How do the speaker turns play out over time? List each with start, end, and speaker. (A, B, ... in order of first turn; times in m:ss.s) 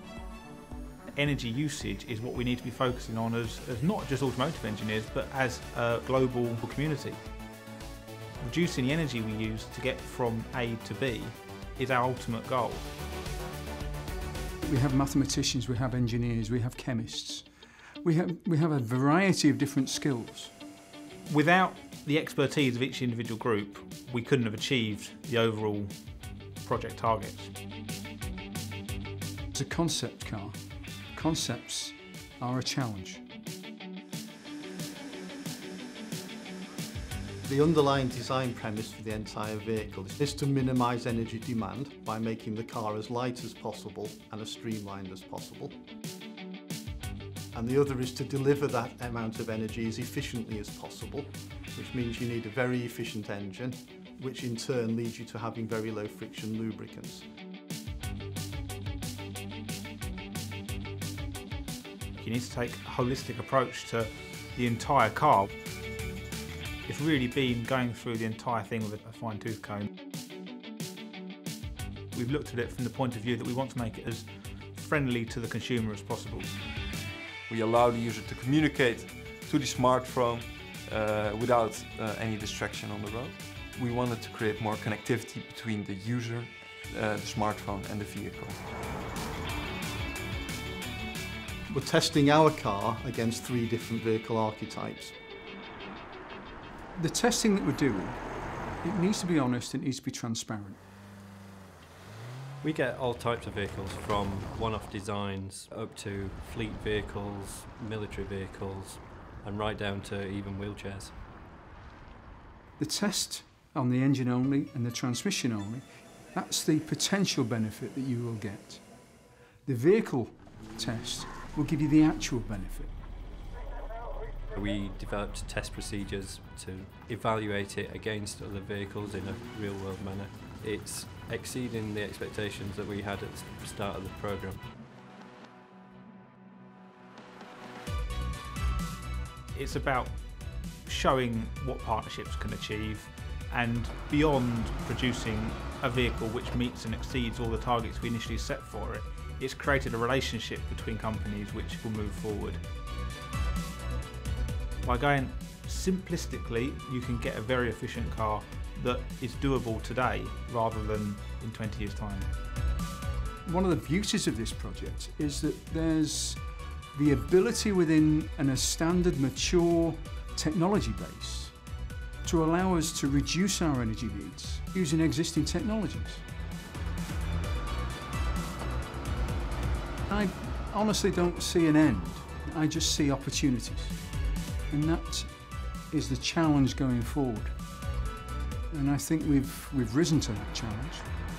0:01.1-0:07.2 A
0:08.4-0:12.9 A
0:14.6-0:17.5 B
0:18.0-0:20.5 B
0:21.3-0:25.9 A
0:26.6-0:27.5 A
0:29.5-0:30.6 B
0:31.1-0:33.2 B
0:37.4-0:45.8 C
0:47.5-0:57.3 C
1:02.2-1:05.5 A
1:06.8-1:09.9 A
1:12.1-1:16.5 A
1:17.5-1:28.6 D
1:31.7-1:35.1 C
1:37.0-1:38.2 B
1:38.8-1:40.8 B
1:42.6-1:51.2 E
1:52.8-1:58.8 B
1:59.6-2:02.9 B
2:04.5-2:14.6 E
2:19.5-2:20.2 A
2:20.8-2:32.6 A
2:34.8-2:42.3 A
2:43.4-2:46.4 B
2:46.9-2:51.5 B
2:52.2-2:56.2 B
3:00.1-3:04.0 B
3:04.7-3:05.3 B
3:05.9-3:07.5 B
3:08.7-3:11.1 B